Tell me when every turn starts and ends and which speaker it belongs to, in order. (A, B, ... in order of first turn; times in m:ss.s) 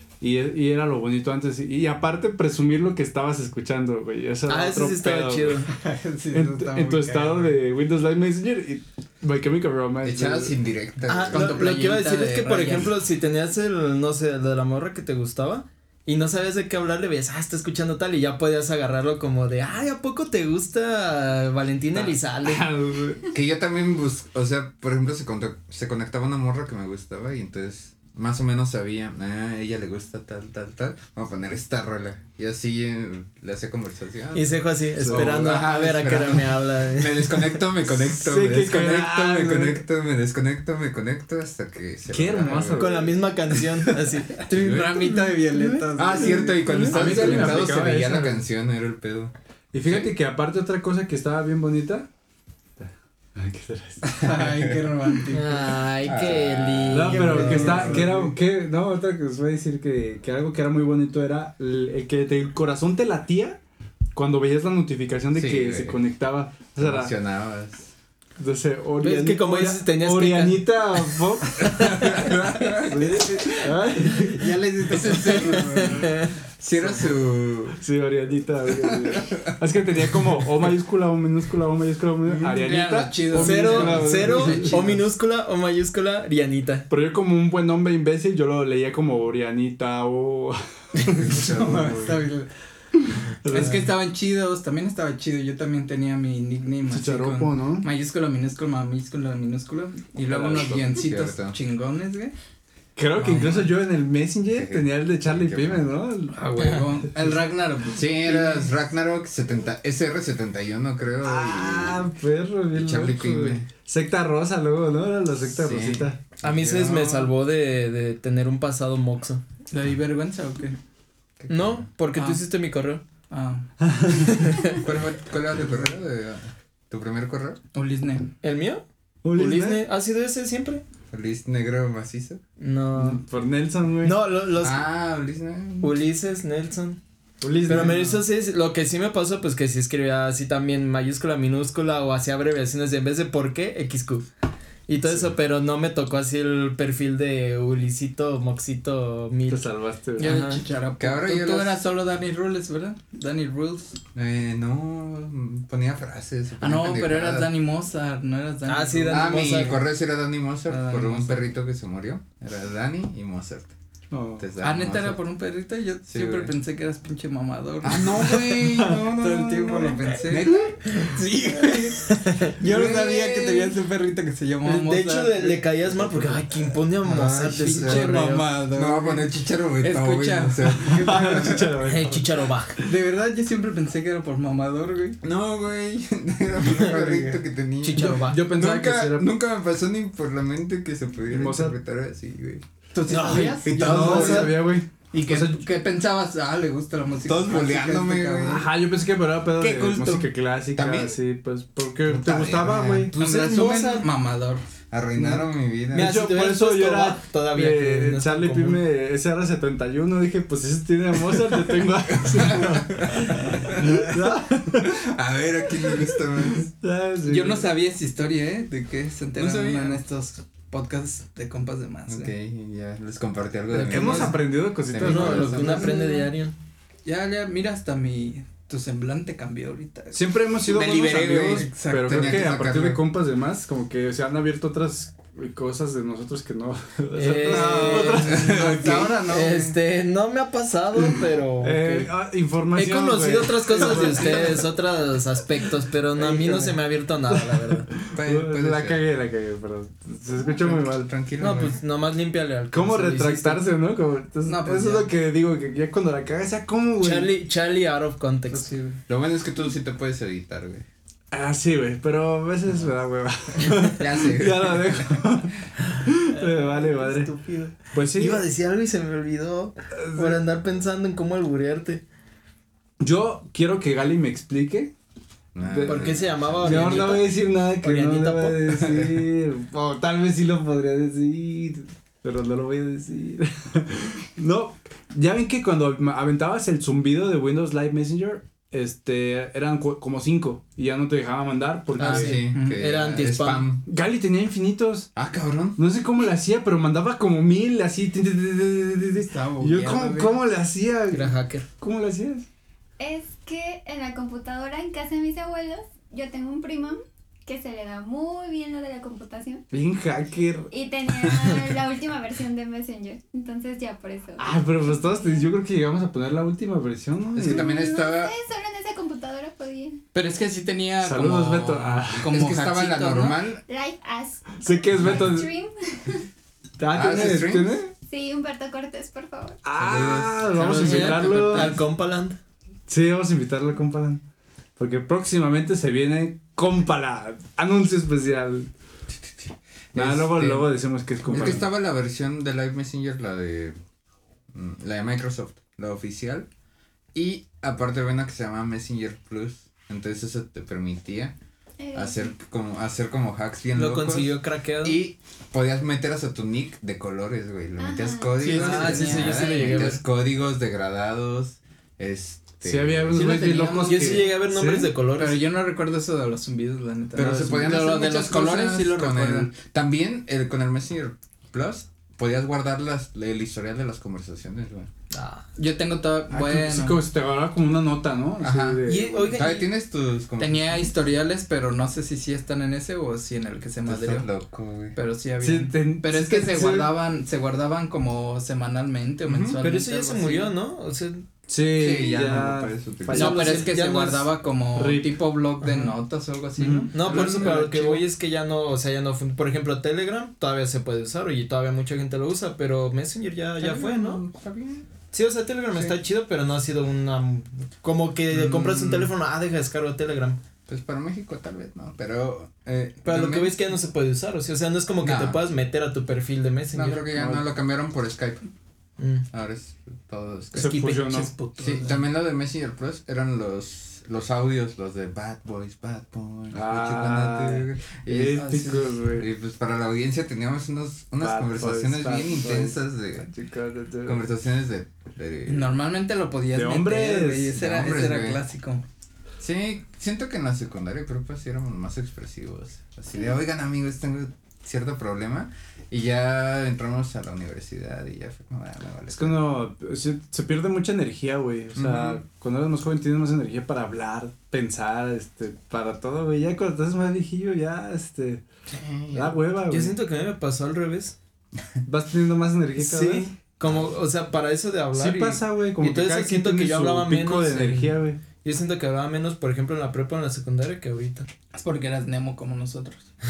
0:00.2-0:05.6 A
0:04.5-0:05.7 B
0:05.7-0:07.6 C
0:06.3-0:10.5 A
0:10.0-0:11.6 D
0:11.1-0:22.7 B
0:11.3-0:12.9 C
0:21.9-0:23.2 A
0:23.3-0:43.1 D
0:34.3-0:37.6 B
0:35.0-0:35.4 A
0:38.0-0:39.8 A
0:42.1-0:43.9 A
0:42.7-0:44.4 B
0:44.4-0:47.6 C
0:44.6-0:48.4 A
0:44.6-0:44.9 D
0:45.9-0:49.3 D
0:49.7-0:52.1 A
0:49.8-0:50.1 D
0:52.8-0:54.3 A
0:54.1-0:55.7 C
0:54.2-0:54.8 D
0:55.3-0:58.1 B
0:56.0-0:58.1 D
0:56.9-1:03.6 A
0:57.2-0:58.3 C
1:04.1-1:07.1 A
1:05.3-1:06.0 D
1:06.8-1:07.9 D
1:08.4-1:12.2 A
1:09.0-1:11.0 B
1:11.6-1:13.7 D
1:12.8-1:15.2 A
1:13.3-1:13.6 C
1:14.1-1:17.0 C
1:14.9-1:15.8 D
1:15.7-1:16.3 B
1:16.6-1:17.8 D
1:17.8-1:25.0 A
1:22.2-1:25.0 C
1:23.4-1:26.9 B
1:26.9-1:32.1 A
1:31.1-1:32.5 C
1:31.2-1:32.0 D
1:33.3-1:33.8 A
1:33.5-1:42.3 C
1:36.9-1:37.9 A
1:40.3-1:41.6 D
1:43.0-1:46.8 A
1:43.1-1:43.7 C
1:44.5-1:45.9 D
1:46.3-1:48.7 C
1:47.9-1:52.1 D
1:51.2-1:56.2 A
1:52.7-1:53.7 D
1:55.4-1:57.3 D
1:56.4-1:59.4 B
1:59.7-2:00.8 C
2:01.4-2:01.9 D
2:01.5-2:03.0 B
2:02.2-2:02.4 C
2:03.3-2:03.7 C
2:03.8-2:04.5 A
2:04.3-2:04.8 B
2:04.7-2:07.6 D
2:07.7-2:08.3 C
2:08.4-2:10.8 B
2:09.2-2:09.8 A
2:11.1-2:12.4 D
2:12.6-2:13.2 B
2:13.0-2:14.2 A
2:14.0-2:14.8 B
2:14.6-2:16.0 D
2:15.8-2:17.0 B
2:17.4-2:18.2 A
2:17.6-2:24.2 B
2:24.9-2:29.7 B
2:29.5-2:30.3 A
2:30.2-2:30.6 B
2:30.2-2:34.0 C
2:31.0-2:31.8 D
2:34.1-2:37.5 D
2:36.6-2:39.8 C
2:38.7-2:39.8 B
2:39.1-2:43.7 D
2:40.7-2:41.5 C
2:44.1-2:44.4 A
2:44.4-2:45.2 D
2:44.6-2:56.4 C
2:46.1-2:46.5 D
2:47.8-2:50.8 D
2:52.0-2:52.5 B
2:52.6-2:53.8 D
2:54.6-2:58.5 B
2:57.0-2:58.1 D
2:57.6-3:01.7 C
2:58.7-3:01.7 D
3:00.8-3:02.2 A
3:01.8-3:02.8 B
3:02.8-3:05.2 C
3:05.2-3:12.6 D
3:06.6-3:07.2 B
3:07.8-3:08.5 B
3:07.8-3:08.2 C
3:08.2-3:09.3 A
3:11.3-3:11.7 A
3:12.9-3:18.6 C
3:13.1-3:14.6 B
3:13.1-3:15.6 A
3:13.6-3:14.5 D
3:17.2-3:18.7 D
3:18.5-3:23.1 A
3:19.6-3:21.2 D
3:22.0-3:23.1 D
3:23.1-3:24.1 B
3:23.1-3:24.6 C
3:24.9-3:26.1 D
3:25.9-3:28.8 B
3:25.9-3:35.0 A
3:32.2-3:36.7 D
3:36.5-3:37.7 A
3:37.2-3:42.3 C
3:39.4-3:40.0 D
3:42.1-3:46.0 D
3:43.7-3:44.4 B
3:43.8-3:46.0 A
3:45.0-3:46.5 B
3:47.0-3:50.2 C
3:50.1-3:58.8 A
3:50.6-3:53.0 D
3:51.5-3:52.4 C
3:57.1-3:58.6 B
3:57.4-3:59.7 C
3:58.2-3:59.3 D
3:59.2-4:02.1 B
4:01.6-4:04.7 A
4:02.7-4:07.9 B
4:03.8-4:04.5 C
4:07.5-4:11.1 A
4:08.1-4:09.0 D
4:10.5-4:11.8 D
4:11.4-4:13.6 B
4:12.7-4:17.3 A
4:14.4-4:15.1 C
4:17.0-4:18.7 B
4:18.5-4:19.0 C
4:19.1-4:20.8 D
4:21.3-4:27.3 A
4:23.8-4:25.2 D
4:26.3-4:32.0 B
4:27.9-4:28.4 A
4:30.0-4:30.4 A
4:33.0-4:34.9 A
4:35.5-4:37.3 D
4:35.6-4:52.4 A
4:35.8-4:38.8 B
4:38.8-4:39.2 D
4:52.0-4:53.7 B
4:52.0-4:53.8 D
4:52.0-4:52.8 C
4:53.8-4:55.1 A
4:55.2-4:55.8 D
4:55.8-5:02.4 A
4:59.2-5:00.4 C
5:01.1-5:01.6 B
5:03.0-5:09.6 E
5:09.7-5:10.7 A
5:10.7-5:15.5 E
5:14.4-5:17.7 A
5:17.3-5:18.3 D
5:17.4-5:20.0 E
5:20.1-5:23.4 C
5:21.0-5:22.3 A
5:22.2-5:23.6 D
5:23.7-5:26.2 E
5:24.6-5:25.5 A
5:26.8-5:27.9 A
5:26.9-5:27.8 D
5:27.9-5:30.0 E
5:29.6-5:31.8 A
5:29.8-5:31.0 D
5:30.5-5:31.8 C
5:30.7-5:32.4 B
5:32.9-5:34.2 A
5:34.8-5:38.7 A
5:39.3-5:40.7 D
5:39.9-5:41.7 A
5:41.2-5:43.8 D
5:44.5-5:46.5 D
5:47.1-5:51.3 D
5:51.8-5:52.3 E
5:51.9-6:03.4 D
5:53.7-5:55.0 B
5:57.8-5:59.9 E
5:58.4-6:00.0 B
5:58.5-5:58.8 A
6:02.6-6:04.9 A
6:03.1-6:04.3 C
6:03.4-6:05.4 B
6:05.1-6:09.5 C
6:07.1-6:14.9 D
6:15.1-6:15.4 B
6:15.6-6:17.0 C
6:16.3-6:19.3 A
6:18.4-6:20.9 D
6:18.8-6:19.7 B
6:20.4-6:24.3 C
6:23.8-6:24.9 D
6:24.9-6:30.5 C
6:25.4-6:26.9 A
6:29.2-6:29.6 D
6:29.6-6:31.2 B
6:31.5-6:33.6 A
6:31.8-6:33.5 D
6:33.1-6:34.3 B
6:33.1-6:37.6 C
6:34.8-6:35.1 A
6:35.6-6:35.9 B
6:36.6-6:38.0 A
6:36.9-6:44.2 B
6:43.6-6:44.9 D
6:45.1-6:50.4 B
6:48.3-6:49.1 D
6:50.7-6:53.6 D
6:53.0-6:57.1 B
6:55.0-6:55.4 D
6:56.7-6:58.5 D
6:57.1-6:57.4 A
6:59.0-6:59.2 B
6:59.3-7:00.8 D
7:00.5-7:01.3 A
7:00.6-7:01.8 B
7:01.6-7:13.3 D
7:06.5-7:09.3 A
7:08.3-7:08.9 C
7:11.2-7:14.2 A
7:14.0-7:15.7 D
7:15.5-7:18.8 C
7:16.5-7:17.7 A
7:17.6-7:18.4 D
7:19.4-7:29.5 D
7:29.1-7:38.4 A
7:31.7-7:32.2 D
7:38.7-7:39.4 D
7:39.1-7:40.0 A
7:39.7-7:41.1 B
7:41.8-7:43.3 A
7:42.8-7:51.3 B
7:44.9-7:48.2 A
7:51.5-7:53.1 C